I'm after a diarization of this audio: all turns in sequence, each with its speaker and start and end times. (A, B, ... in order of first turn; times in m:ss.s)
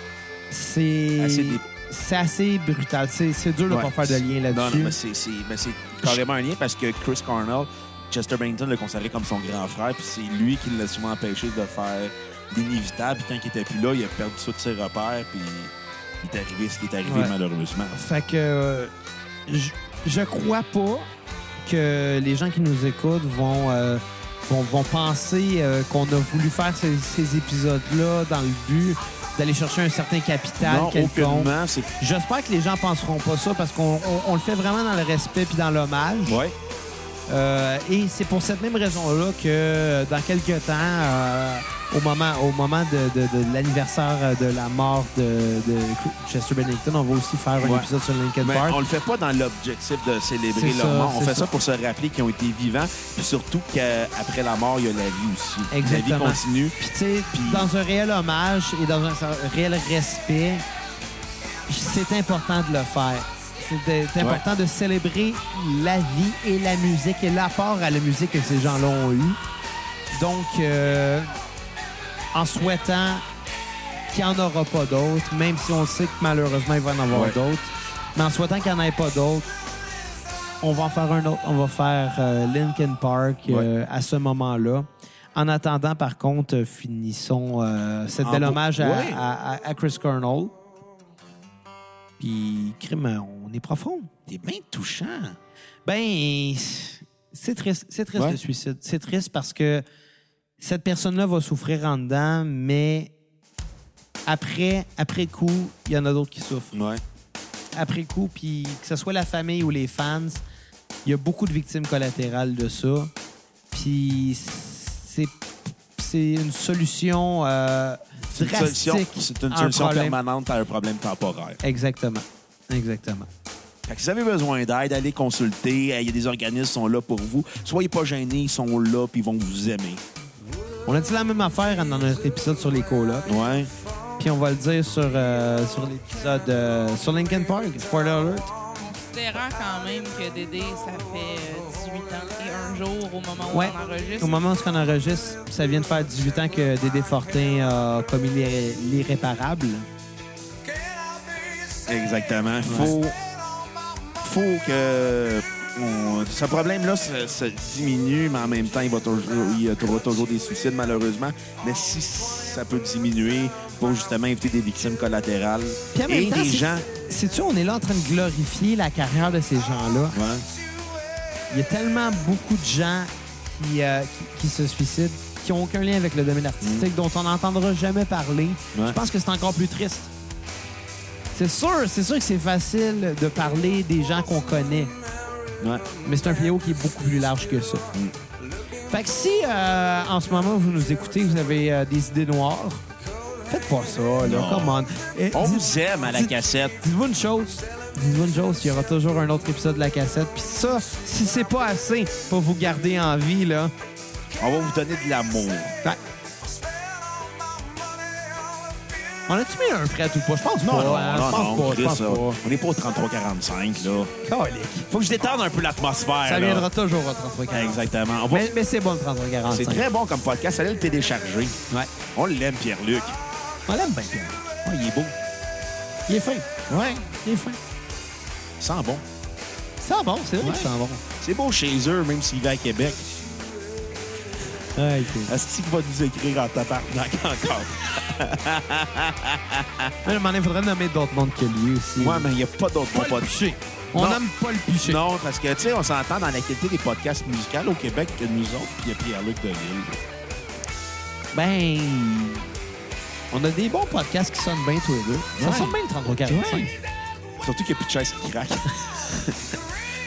0:00.5-0:05.0 A
0:01.2-0:01.6 B
0:03.7-0:18.0 B
0:17.0-0:17.3 A
0:17.9-0:18.9 A
0:19.5-0:21.1 A
0:21.6-0:36.4 A
0:30.6-0:31.9 B
0:36.3-0:36.6 B
0:37.3-0:48.8 A
0:47.6-0:47.9 B
0:48.4-0:56.8 B
0:50.5-0:51.5 A
0:55.7-1:00.6 A
0:57.3-0:57.7 B
1:01.7-1:09.4 A
1:10.1-1:11.3 A
1:12.3-1:13.2 A
1:14.1-1:19.5 A
1:17.1-1:17.4 B
1:20.6-1:30.5 A
1:28.2-1:29.2 B
1:32.2-1:34.1 A
1:34.3-1:35.4 B
1:35.9-1:39.8 A
1:40.6-1:43.1 A
1:44.3-1:46.7 A
1:46.7-1:47.0 B
1:47.7-1:50.4 A
1:51.0-1:53.1 A
1:53.7-1:55.4 A
1:56.0-2:00.2 A
1:58.3-2:01.6 B
2:01.6-2:03.3 A
2:03.9-2:10.0 B
2:10.9-2:13.3 A
2:13.3-2:13.7 B
2:14.2-2:18.5 A
2:18.8-2:24.4 C
2:23.5-2:29.9 A
2:31.9-2:33.2 B
2:32.7-2:33.0 A
2:34.2-2:46.9 B
2:45.9-2:50.2 A
2:50.1-2:50.5 B
2:51.5-3:00.1 A
2:56.6-2:56.9 B
3:01.3-3:04.9 A
3:06.0-3:07.9 A
3:08.9-3:12.8 A
3:13.5-3:23.7 A
3:14.2-3:14.8 B
3:15.3-3:16.8 B
3:24.4-3:25.8 B
3:29.3-3:32.4 A
3:30.6-3:34.1 B
3:34.2-3:34.9 A
3:34.9-3:36.7 B
3:36.2-3:39.8 A
3:37.5-3:38.5 B
3:39.5-3:41.6 B
3:42.1-3:43.2 B
3:43.7-3:44.4 A
3:44.6-3:45.2 B
3:46.1-3:47.6 A
3:46.7-3:47.0 B
3:48.6-3:49.0 B
3:49.8-3:51.0 A
3:50.4-3:53.1 B
3:54.8-3:55.3 A
3:55.2-4:00.0 B
4:00.0-4:02.3 A
4:02.0-4:03.3 B
4:02.9-4:05.0 A
4:03.9-4:04.2 B
4:04.8-4:10.0 B
4:11.3-4:12.5 A
4:13.3-4:16.7 A
4:15.4-4:16.7 B
4:17.4-4:19.6 B